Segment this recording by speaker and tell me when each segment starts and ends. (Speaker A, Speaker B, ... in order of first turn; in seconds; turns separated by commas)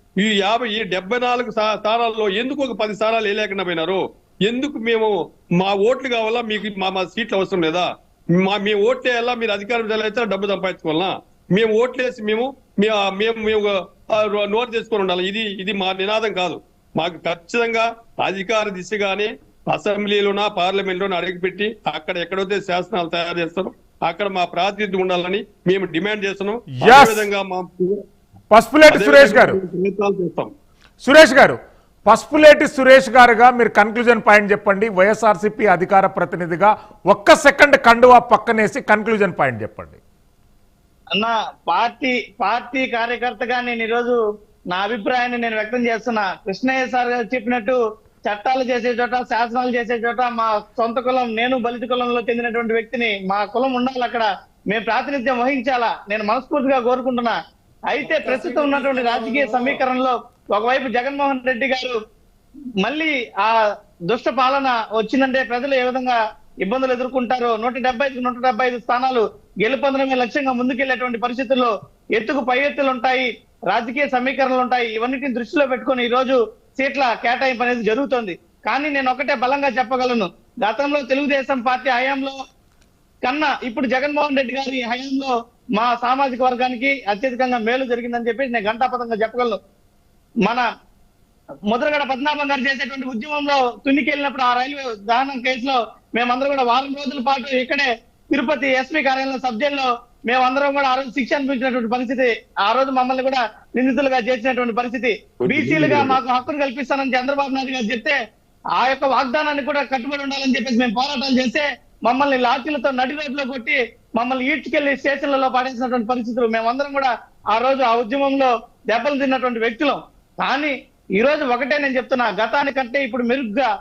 Speaker A: 0.2-28.0, Speaker B: 26.7-27.3, Speaker B: 28.5-29.6, Speaker A: 28.9-30.5, Speaker B: 31.0-40.0, Speaker C: 41.2-44.2, Speaker C: 44.7-57.4, Speaker C: 57.9-61.9, Speaker C: 62.8-63.5, Speaker C: 64.1-82.3, Speaker C: 83.2-89.6, Speaker C: 91.7-108.1, Speaker A: 105.4-106.2, Speaker C: 108.8-123.7